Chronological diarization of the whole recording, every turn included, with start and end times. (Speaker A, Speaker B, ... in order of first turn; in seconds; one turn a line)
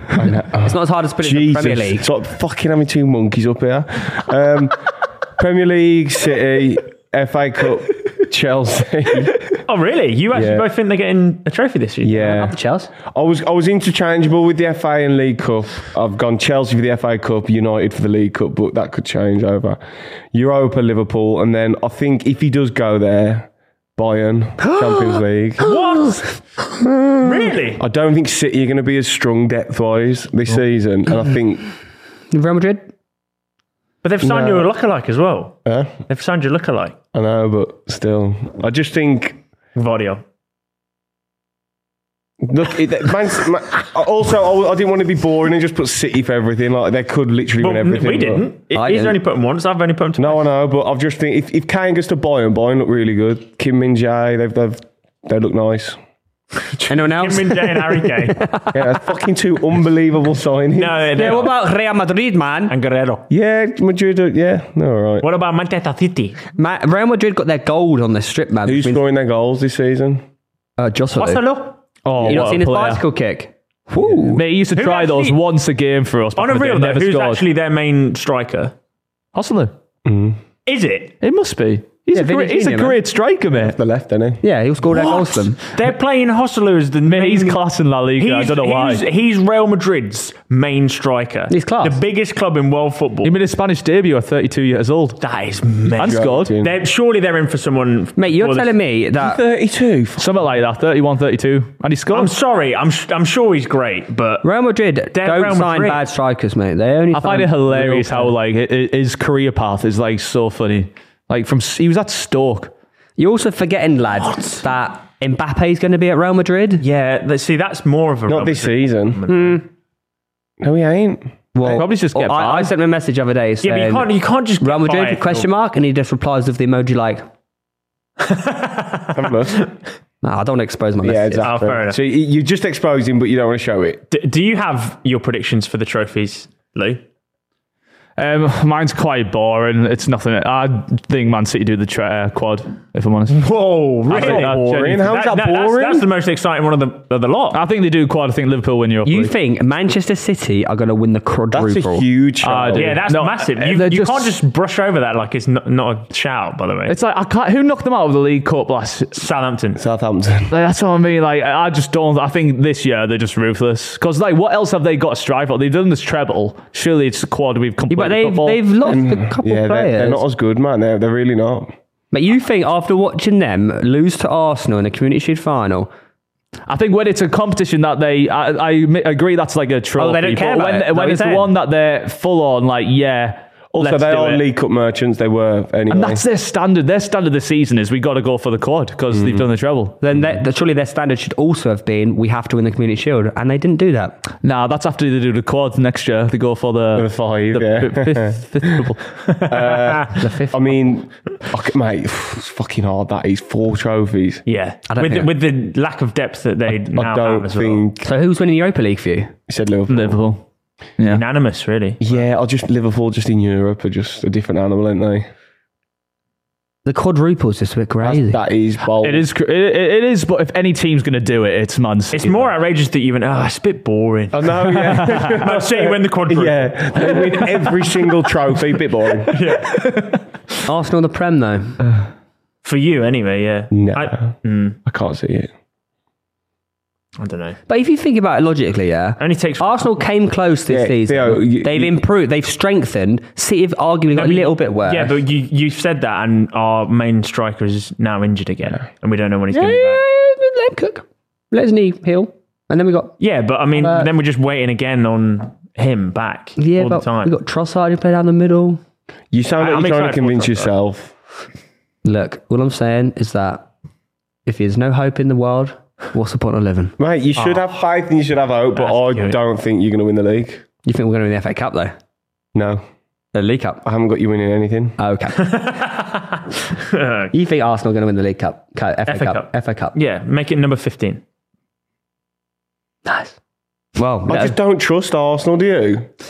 Speaker A: 0.1-9.4
Speaker B: 0.6-2.0
Speaker C: 9.7-12.4
Speaker A: 10.3-10.7
Speaker A: 12.0-19.8
Speaker B: 12.2-12.9
Speaker A: 20.3-25.8
Speaker B: 24.6-25.7
Speaker C: 25.6-26.3
Speaker B: 26.7-27.5
Speaker C: 27.2-27.8
Speaker A: 27.8-31.6
Speaker B: 32.3-32.9
Speaker C: 34.0-35.5
Speaker A: 34.2-34.7
Speaker A: 35.6-35.9
Speaker C: 36.1-37.0
Speaker A: 37.1-39.4
Speaker C: 39.7-40.2
Speaker A: 42.4-48.5
Speaker C: 47.6-50.4
Speaker B: 48.7-49.2
Speaker A: 50.2-56.0
Speaker C: 56.7-58.5
Speaker B: 56.9-58.9
Speaker A: 58.7-61.1
Speaker C: 60.8-61.5
Speaker B: 61.1-62.7
Speaker C: 62.7-63.2
Speaker A: 63.3-65.2
Speaker C: 65.2-66.4
Speaker B: 66.5-69.0
Speaker A: 68.6-70.2
Speaker B: 70.8-71.4
Speaker C: 71.2-71.8
Speaker D: 72.0-73.0
Speaker B: 72.2-74.4
Speaker A: 74.1-74.4
Speaker D: 74.3-77.4
Speaker C: 74.7-75.4
Speaker C: 76.4-78.7
Speaker D: 79.3-79.7
Speaker A: 80.0-80.4
Speaker C: 80.7-81.1
Speaker D: 81.2-83.7
Speaker B: 82.1-83.0
Speaker A: 83.5-84.4
Speaker B: 84.4-85.6
Speaker C: 84.9-87.6
Speaker D: 87.0-89.0
Speaker C: 88.2-93.3
Speaker B: 91.5-92.0
Speaker D: 93.2-95.2
Speaker C: 95.2-98.8
Speaker A: 96.0-96.7
Speaker D: 96.0-96.5
Speaker B: 98.2-99.4
Speaker A: 99.2-100.2
Speaker D: 100.2-102.3
Speaker C: 102.1-104.5
Speaker B: 104.4-108.3
Speaker C: 105.1-106.0
Speaker D: 107.1-112.7
Speaker B: 113.2-116.8
Speaker C: 114.2-114.6
Speaker C: 116.8-119.6
Speaker A: 118.3-119.2
Speaker B: 119.3-119.6
Speaker A: 120.6-121.3
Speaker B: 121.5-127.2
Speaker D: 121.6-122.7
Speaker C: 123.6-125.5
Speaker C: 128.2-129.8
Speaker A: 129.1-129.6
Speaker B: 130.2-131.5
Speaker A: 131.0-134.0
Speaker C: 131.4-132.0
Speaker C: 134.1-137.0
Speaker D: 138.2-143.4
Speaker C: 143.3-147.6
Speaker D: 144.1-145.1
Speaker A: 144.1-146.1
Speaker D: 147.5-149.3
Speaker B: 149.0-152.1
Speaker A: 151.5-153.0
Speaker D: 152.4-154.3
Speaker C: 152.8-156.9
Speaker D: 156.9-159.2
Speaker C: 159.1-159.8
Speaker A: 159.8-160.5
Speaker D: 160.5-168.6
Speaker B: 167.9-170.2
Speaker A: 168.8-171.7
Speaker B: 172.1-175.9
Speaker D: 176.7-184.4
Speaker B: 180.0-181.5
Speaker A: 183.8-186.2
Speaker D: 185.9-190.3
Speaker A: 189.1-189.4
Speaker B: 190.0-194.2
Speaker D: 194.4-199.2
Speaker A: 196.9-198.9
Speaker A: 199.4-204.4
Speaker C: 199.8-200.2
Speaker B: 200.1-200.7
Speaker C: 204.4-207.8
Speaker B: 204.9-205.3
Speaker A: 206.9-208.1
Speaker B: 208.0-209.3
Speaker A: 209.5-210.2
Speaker D: 209.9-210.4
Speaker D: 211.0-211.2
Speaker C: 211.0-212.0
Speaker A: 212.0-215.2
Speaker B: 216.8-218.4
Speaker A: 218.0-219.2
Speaker D: 219.0-222.5
Speaker C: 222.1-227.6
Speaker A: 224.3-229.4
Speaker C: 229.3-230.2
Speaker B: 230.7-231.8
Speaker C: 232.6-234.8
Speaker A: 233.7-234.3
Speaker A: 234.8-235.5
Speaker C: 237.2-237.6
Speaker B: 237.7-245.2
Speaker C: 239.2-240.0
Speaker A: 240.7-242.0
Speaker C: 244.1-250.0
Speaker B: 249.5-253.2
Speaker C: 253.2-257.3
Speaker B: 253.8-254.1
Speaker B: 256.6-258.8
Speaker A: 259.3-261.1
Speaker C: 259.6-260.7
Speaker B: 262.0-263.7
Speaker B: 264.4-266.9
Speaker A: 267.0-270.6
Speaker C: 267.4-267.7
Speaker C: 268.8-269.4
Speaker B: 270.8-271.9
Speaker A: 272.5-272.8
Speaker B: 273.3-273.8
Speaker A: 273.8-275.0
Speaker B: 275.0-275.5
Speaker C: 275.4-277.3
Speaker B: 277.3-279.9
Speaker C: 279.1-281.2
Speaker B: 283.1-283.4
Speaker B: 283.9-284.5
Speaker A: 284.2-286.1